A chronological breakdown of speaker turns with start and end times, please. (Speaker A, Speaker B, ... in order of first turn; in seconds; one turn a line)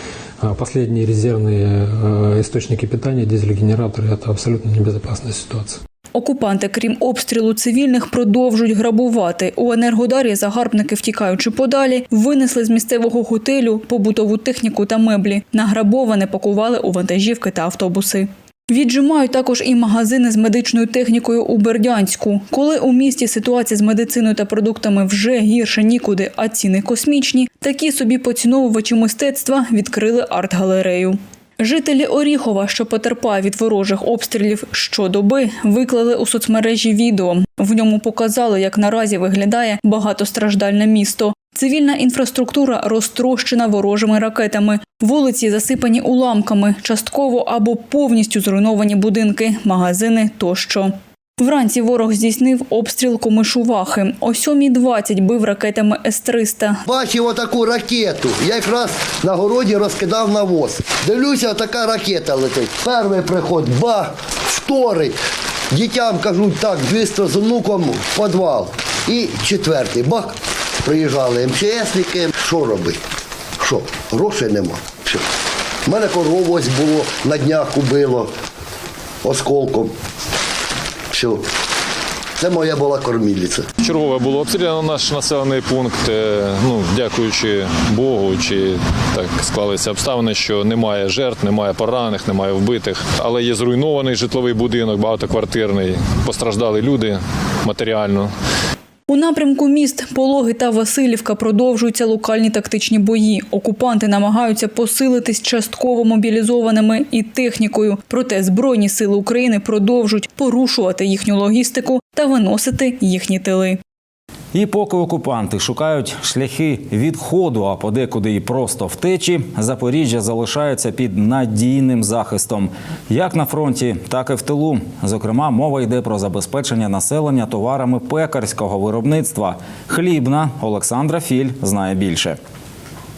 Speaker A: 0.4-5.8
Speaker B: 6.2-56.8
Speaker C: 56.9-65.2
Speaker C: 65.7-70.3
Speaker C: 70.8-73.0
Speaker C: 73.6-75.2
Speaker C: 75.9-78.3
Speaker C: 79.2-79.9
Speaker C: 81.1-81.5
Speaker C: 82.4-83.7
Speaker D: 83.8-98.3
Speaker B: 99.1-113.8
Speaker E: 114.5-132.4